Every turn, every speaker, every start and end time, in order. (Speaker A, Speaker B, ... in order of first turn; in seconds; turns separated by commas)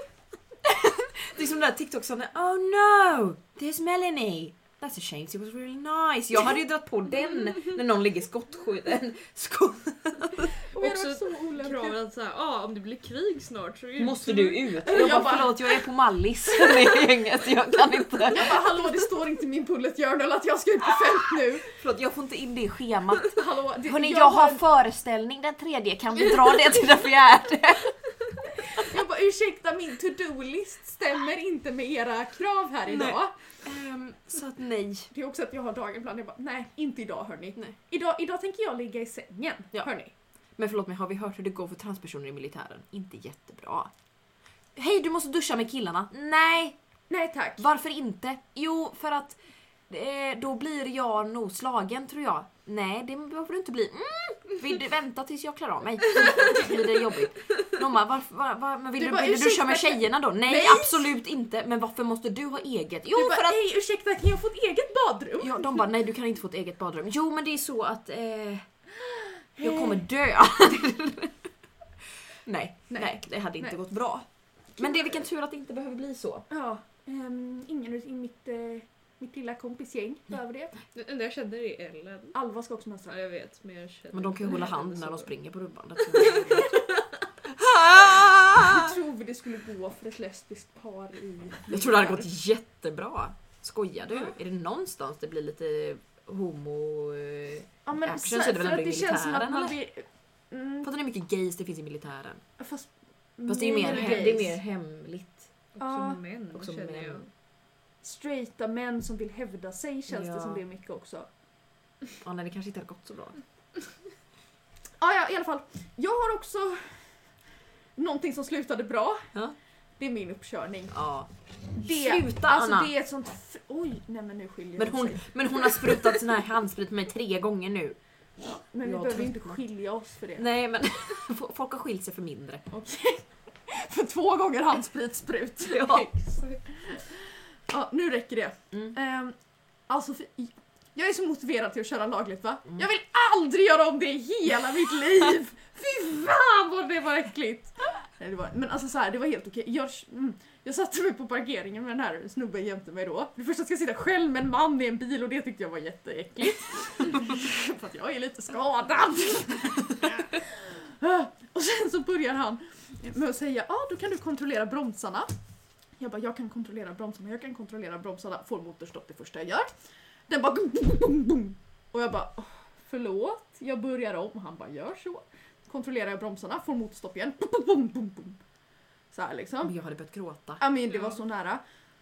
Speaker A: 0.6-10.5, Speaker B: 10.7-12.0, Speaker C: 10.8-14.7, Speaker A: 14.0-18.6, Speaker B: 14.8-15.7, Speaker B: 18.3-21.7, Speaker A: 21.7-27.9, Speaker B: 23.3-24.6, Speaker B: 28.6-33.3, Speaker A: 32.9-35.1, Speaker B: 35.1-40.1, Speaker A: 40.6-43.9, Speaker A: 44.8-46.8, Speaker B: 47.1-47.6, Speaker A: 47.6-63.6, Speaker B: 56.3-56.7, Speaker B: 59.0-61.1, Speaker B: 63.1-65.8, Speaker A: 65.4-68.6, Speaker B: 69.4-70.0, Speaker A: 69.6-71.4, Speaker A: 72.5-76.5, Speaker B: 72.9-73.8, Speaker B: 74.8-75.2, Speaker B: 76.5-80.7, Speaker C: 80.9-82.3, Speaker B: 82.3-83.2, Speaker C: 83.1-85.3, Speaker A: 84.1-86.8, Speaker C: 86.1-87.1, Speaker A: 87.4-89.0, Speaker B: 88.5-92.3, Speaker A: 91.7-99.7, Speaker B: 97.8-100.9, Speaker A: 100.8-102.4, Speaker B: 102.6-104.6, Speaker A: 103.5-105.4, Speaker C: 103.8-104.3, Speaker C: 105.7-107.3, Speaker B: 105.8-106.2, Speaker A: 106.5-107.3, Speaker B: 108.0-111.3, Speaker A: 110.1-110.6, Speaker A: 112.2-113.4, Speaker B: 115.0-117.0, Speaker B: 118.0-119.2, Speaker B: 120.0-120.9, Speaker A: 120.9-122.9, Speaker B: 121.8-126.2, Speaker A: 124.8-128.0, Speaker B: 128.4-130.4, Speaker A: 128.8-129.6, Speaker A: 130.3-132.7, Speaker B: 132.7-135.9, Speaker A: 135.7-136.1, Speaker C: 135.8-136.6, Speaker B: 137.7-139.3, Speaker B: 139.9-165.3, Speaker B: 166.0-169.7, Speaker B: 170.3-178.4, Speaker B: 179.1-179.7, Speaker A: 179.6-180.6, Speaker B: 180.6-181.6